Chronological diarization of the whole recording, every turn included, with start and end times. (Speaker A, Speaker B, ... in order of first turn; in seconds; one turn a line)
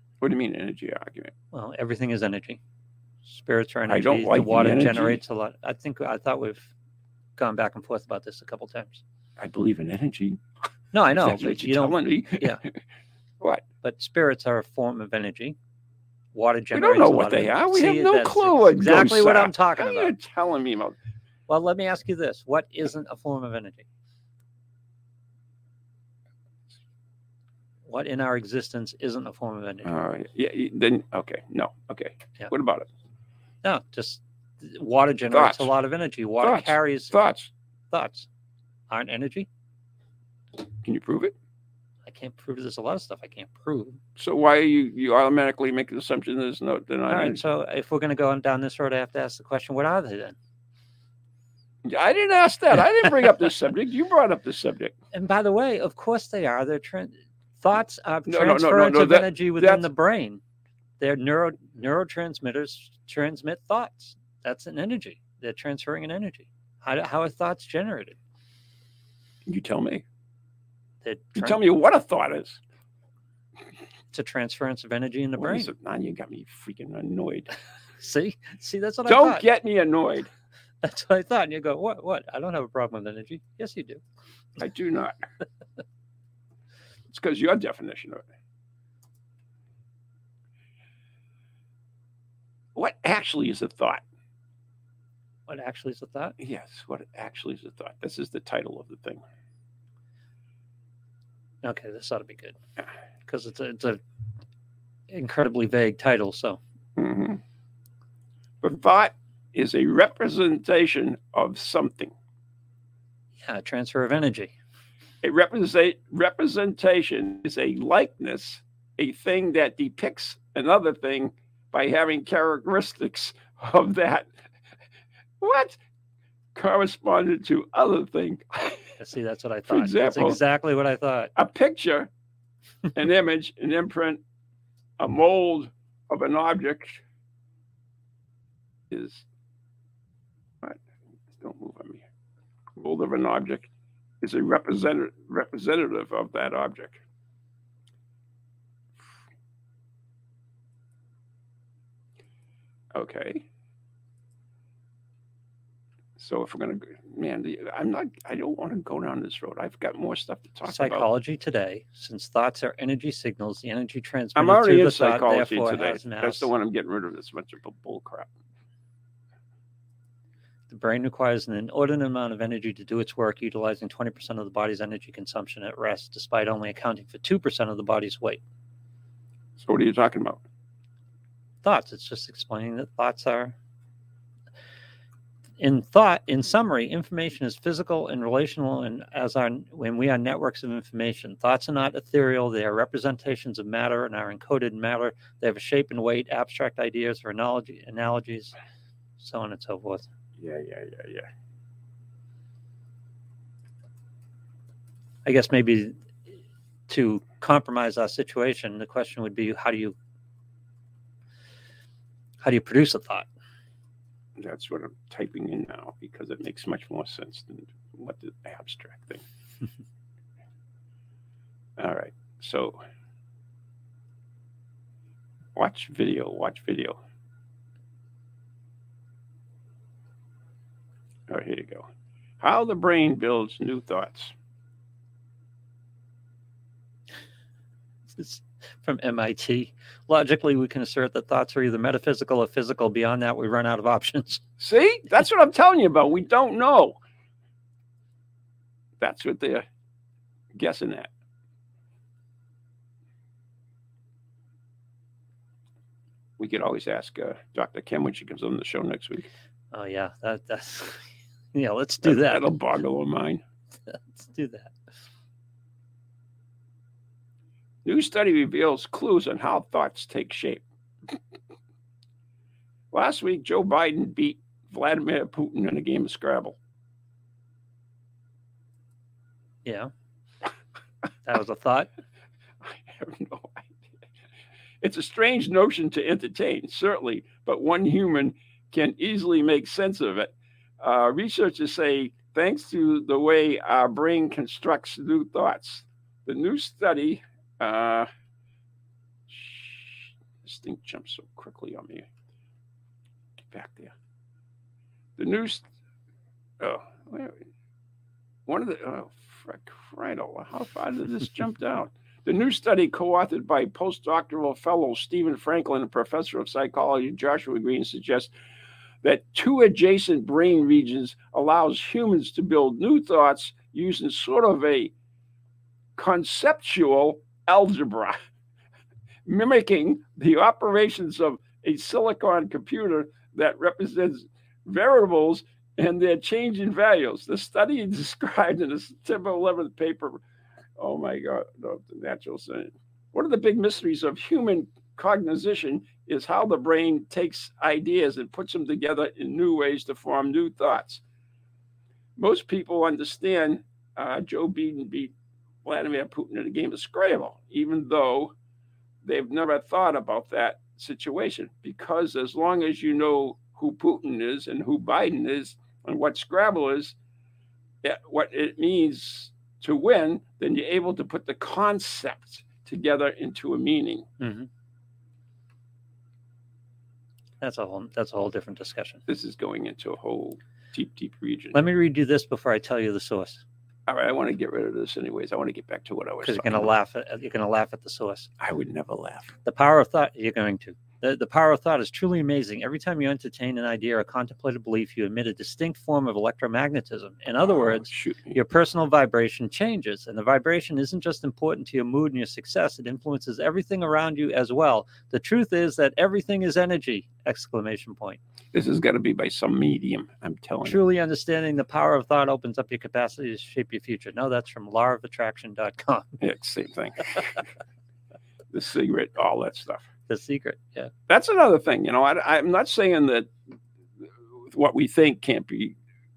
Speaker A: 0.2-1.3
Speaker B: 1.5-2.6
Speaker B: 3.2-6.7
Speaker A: 3.9-5.2
Speaker B: 7.4-9.0
Speaker A: 9.4-10.4
Speaker B: 10.9-12.6
Speaker A: 11.1-12.7
Speaker B: 13.8-15.6
Speaker B: 16.3-20.1
Speaker A: 16.7-21.0
Speaker B: 21.5-23.9
Speaker B: 27.9-29.9
Speaker A: 29.9-32.9
Speaker B: 33.6-37.1
Speaker A: 35.3-35.7
Speaker A: 36.4-37.5
Speaker B: 37.9-38.3
Speaker B: 38.9-39.5
Speaker A: 40.8-41.3
Speaker B: 42.1-44.0
Speaker A: 44.2-47.4
Speaker B: 47.1-50.4
Speaker A: 51.9-55.0
Speaker B: 55.1-60.4
Speaker A: 58.3-59.9
Speaker B: 61.0-68.2
Speaker A: 69.5-70.0
Speaker B: 71.0-71.6
Speaker A: 71.4-72.6
Speaker B: 74.1-75.7
Speaker A: 75.4-77.5
Speaker B: 78.0-79.4
Speaker A: 79.1-80.3
Speaker B: 80.8-84.0
Speaker A: 84.6-85.2
Speaker A: 87.1-88.2
Speaker A: 92.8-94.0
Speaker B: 95.5-96.3
Speaker A: 96.4-99.2
Speaker B: 101.6-102.6
Speaker B: 103.2-104.0
Speaker B: 105.1-106.6
Speaker A: 107.0-107.4
Speaker A: 108.6-112.1
Speaker B: 113.4-114.5
Speaker A: 115.2-124.3
Speaker A: 125.4-125.8
Speaker A: 126.5-128.9
Speaker B: 129.0-131.3
Speaker A: 129.7-130.4
Speaker A: 131.4-132.1
Speaker A: 132.9-134.2
Speaker A: 135.0-137.0
Speaker A: 138.9-139.2
Speaker A: 141.4-142.0
Speaker A: 142.8-143.7
Speaker A: 144.2-147.0
Speaker A: 152.9-153.4
Speaker A: 156.2-161.1
Speaker B: 160.6-166.5
Speaker A: 164.4-168.3
Speaker B: 170.7-178.4
Speaker A: 179.6-180.4
Speaker B: 181.6-183.6
Speaker B: 185.6-198.6
Speaker B: 199.2-200.1
Speaker A: 200.4-201.3
Speaker B: 205.2-206.0
Speaker B: 206.9-210.0
Speaker B: 212.4-213.2
Speaker A: 214.4-219.2
Speaker A: 221.8-222.8
Speaker A: 225.6-227.0
Speaker A: 231.3-231.9
Speaker A: 232.4-234.3
Speaker B: 238.1-244.4
Speaker A: 244.6-247.0
Speaker A: 249.0-249.7
Speaker A: 250.6-251.1
Speaker A: 256.4-259.3
Speaker B: 259.7-262.5
Speaker A: 262.0-263.4
Speaker B: 263.9-264.8
Speaker A: 267.9-270.6
Speaker A: 272.9-276.6
Speaker B: 279.6-279.9
Speaker B: 281.2-281.9
Speaker A: 282.6-283.8
Speaker A: 284.8-298.1
Speaker A: 299.3-302.1
Speaker A: 303.5-303.9
Speaker A: 305.2-305.6
Speaker A: 306.6-307.4
Speaker A: 308.5-318.3
Speaker A: 319.0-324.9
Speaker A: 326.0-328.2
Speaker A: 329.2-340.2
Speaker A: 340.8-351.0
Speaker A: 352.2-355.1
Speaker A: 355.6-358.3
Speaker A: 359.0-366.9
Speaker A: 367.8-374.1
Speaker B: 374.2-374.5
Speaker B: 377.4-379.0
Speaker A: 379.1-381.6
Speaker B: 381.5-383.4
Speaker A: 383.9-386.7
Speaker B: 386.2-388.3
Speaker A: 388.4-389.3
Speaker B: 389.4-408.2
Speaker A: 397.4-398.4
Speaker A: 408.5-410.8
Speaker B: 410.6-416.2
Speaker A: 416.2-417.4
Speaker A: 418.5-419.9
Speaker B: 420.1-420.9
Speaker A: 421.1-423.3
Speaker A: 424.5-425.8